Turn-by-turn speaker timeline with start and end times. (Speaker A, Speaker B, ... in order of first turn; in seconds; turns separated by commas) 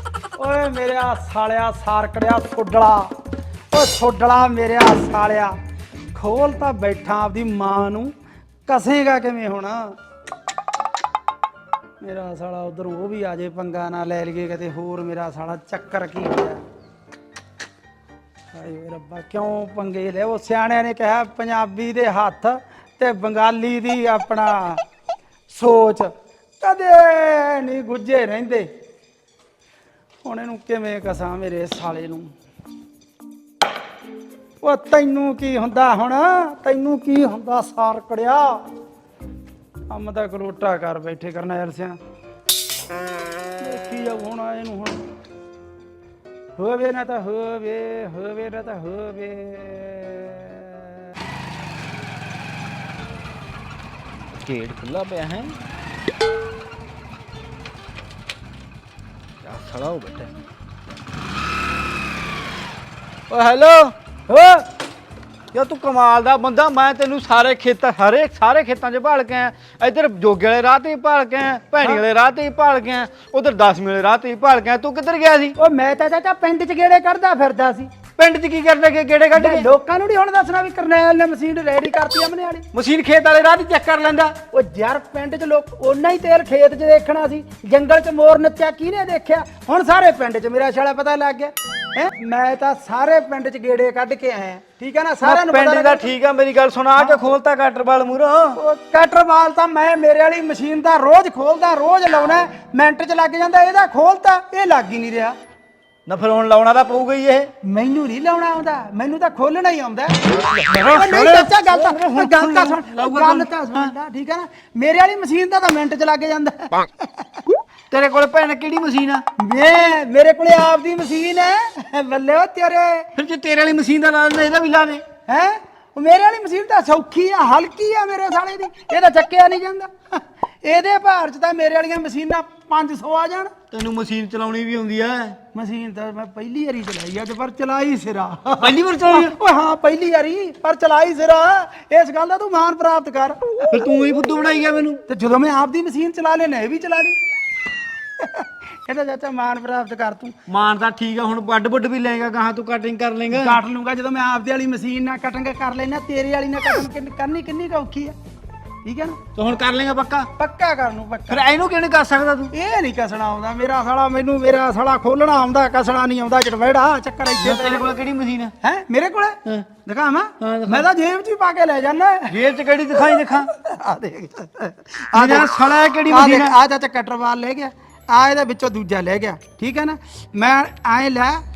Speaker A: 0.4-3.1, Speaker A: 3.7-5.6, Speaker A: 6.1-8.1, Speaker A: 8.7-10.0, Speaker A: 12.0-16.6, Speaker A: 18.5-24.8, Speaker A: 25.5-28.7, Speaker A: 30.2-32.3, Speaker A: 34.6-38.6, Speaker A: 39.9-42.0, Speaker A: 43.6-45.0, Speaker A: 46.6-51.0, Speaker B: 54.4-55.6, Speaker B: 59.4-60.3, Speaker B: 63.3-63.9, Speaker A: 64.3-64.6, Speaker B: 65.5-75.6, Speaker A: 75.6-77.9, Speaker B: 78.2-79.7, Speaker A: 79.3-82.7, Speaker B: 82.7-84.4, Speaker A: 84.5-96.1, Speaker B: 95.2-98.6, Speaker A: 98.5-105.4, Speaker B: 106.1-107.5, Speaker A: 107.6-117.4, Speaker B: 110.5-113.9, Speaker B: 117.9-119.2, Speaker A: 119.4-123.1, Speaker B: 123.2-125.0, Speaker A: 125.3-133.5, Speaker B: 133.7-135.4, Speaker A: 135.5-143.6, Speaker B: 138.6-139.3, Speaker B: 143.7-145.0, Speaker A: 145.1-147.2, Speaker A: 148.2-150.4, Speaker B: 150.5-153.6, Speaker A: 153.3-158.2, Speaker A: 158.8-159.2, Speaker B: 159.3-160.3, Speaker A: 160.4-161.5, Speaker B: 161.3-162.5, Speaker A: 162.5-167.9, Speaker B: 167.4-168.5, Speaker A: 168.6-172.4, Speaker B: 170.4-170.9, Speaker B: 172.3-173.5, Speaker A: 173.2-175.5, Speaker B: 175.1-176.6, Speaker A: 176.1-181.4